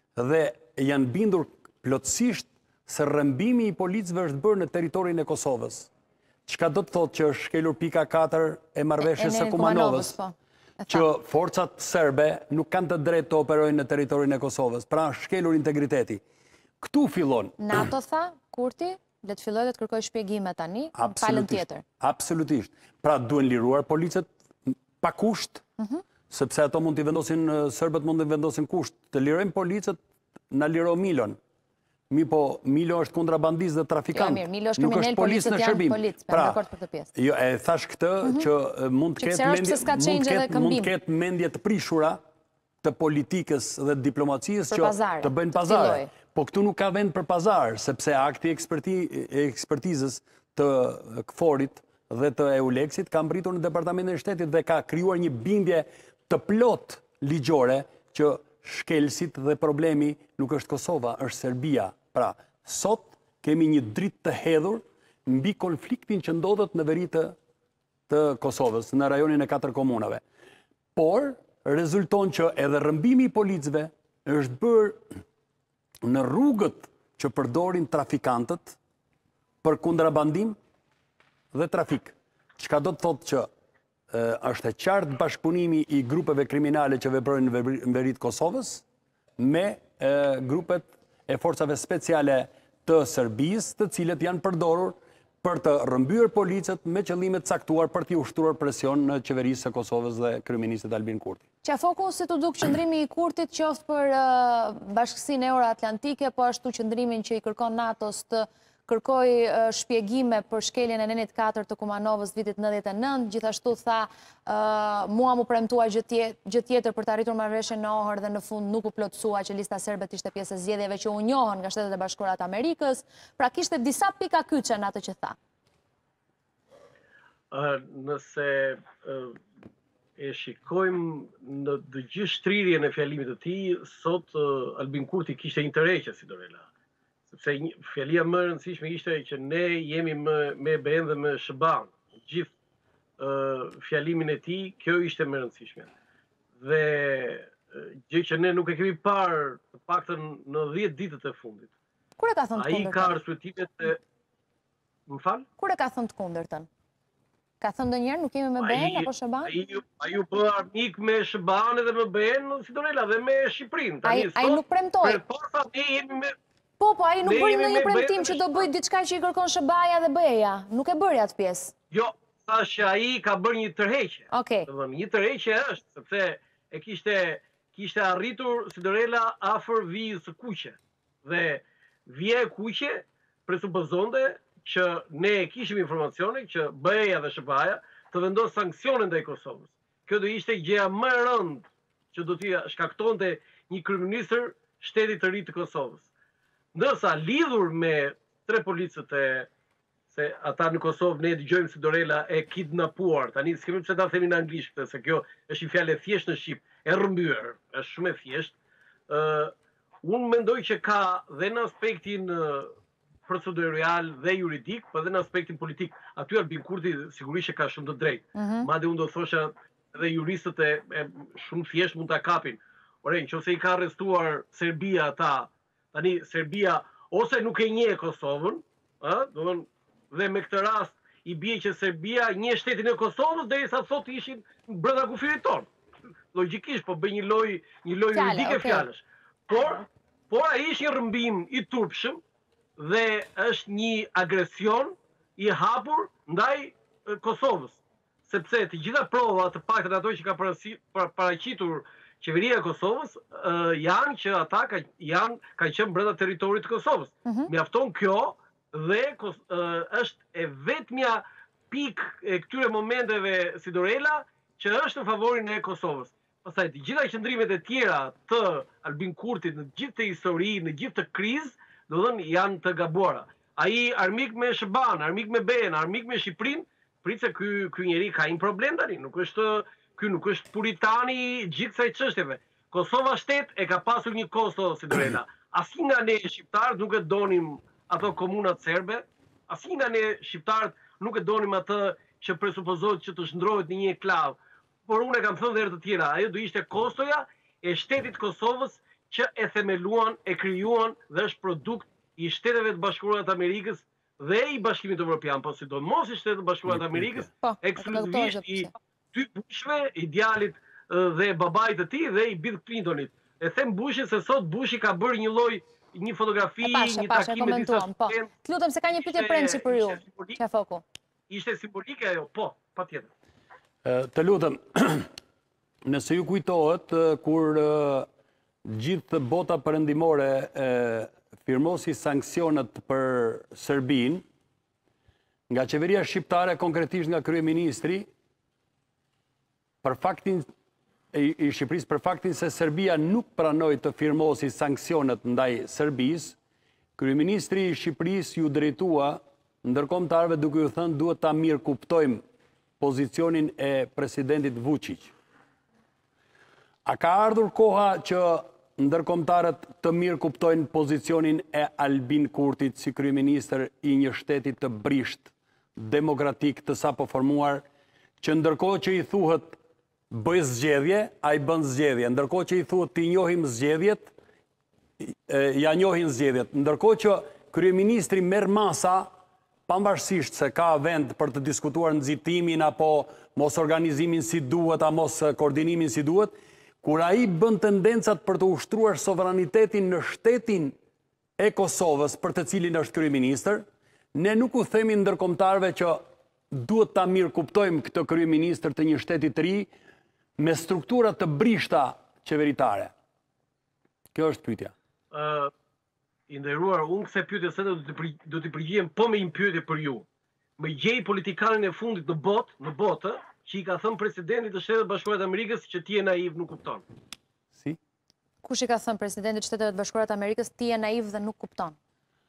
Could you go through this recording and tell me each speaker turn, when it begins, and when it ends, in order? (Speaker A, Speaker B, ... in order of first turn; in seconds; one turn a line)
Speaker A: 0.2-5.9
Speaker A: 6.5-10.2
Speaker B: 9.0-11.1
Speaker A: 10.9-16.2
Speaker A: 16.8-17.9
Speaker B: 17.6-21.8
Speaker A: 20.9-25.6
Speaker A: 26.3-30.0
Speaker A: 30.5-31.4
Speaker A: 32.1-36.6
Speaker B: 34.1-37.1
Speaker A: 37.1-42.2
Speaker B: 39.2-40.9
Speaker A: 42.8-67.4
Speaker B: 44.7-46.1
Speaker A: 68.1-70.2
Speaker A: 71.0-75.1
Speaker A: 76.0-78.8
Speaker A: 79.6-80.6
Speaker A: 81.5-83.5
Speaker A: 84.1-88.8
Speaker A: 89.4-101.4
Speaker B: 101.6-125.4
Speaker C: 127.5-129.4
Speaker C: 130.2-136.7
Speaker C: 137.3-142.5
Speaker C: 143.2-145.9
Speaker C: 146.6-151.7
Speaker B: 152.2-153.1
Speaker C: 152.6-154.0
Speaker C: 155.1-155.5
Speaker B: 155.6-156.7
Speaker B: 157.6-159.5
Speaker C: 158.6-166.4
Speaker B: 164.1-165.2
Speaker B: 166.8-171.7
Speaker C: 167.2-168.7
Speaker C: 171.9-196.1
Speaker B: 174.3-174.7
Speaker C: 196.7-199.5
Speaker C: 200.1-208.5
Speaker C: 209.1-212.7
Speaker C: 213.3-235.7
Speaker B: 218.4-218.7
Speaker C: 236.3-242.2
Speaker B: 238.1-238.9
Speaker C: 242.8-318.3
Speaker B: 257.2-257.5
Speaker A: 306.7-307.3
Speaker B: 307.4-308.7
Speaker B: 316.6-320.8
Speaker C: 319.0-320.4
Speaker C: 321.3-323.1
Speaker A: 323.8-325.1
Speaker A: 325.9-328.1
Speaker A: 328.6-334.2
Speaker A: 335.5-338.1
Speaker A: 339.8-340.5
Speaker A: 341.1-346.4
Speaker A: 347.0-352.2
Speaker A: 352.8-355.1
Speaker A: 356.9-367.6
Speaker A: 368.2-369.6
Speaker A: 370.1-374.1
Speaker A: 375.0-379.1
Speaker A: 379.7-390.8
Speaker A: 391.4-399.7
Speaker A: 400.4-402.9
Speaker A: 404.1-404.7
Speaker C: 405.1-405.5
Speaker C: 406.3-410.1
Speaker C: 410.6-416.9
Speaker B: 418.4-421.8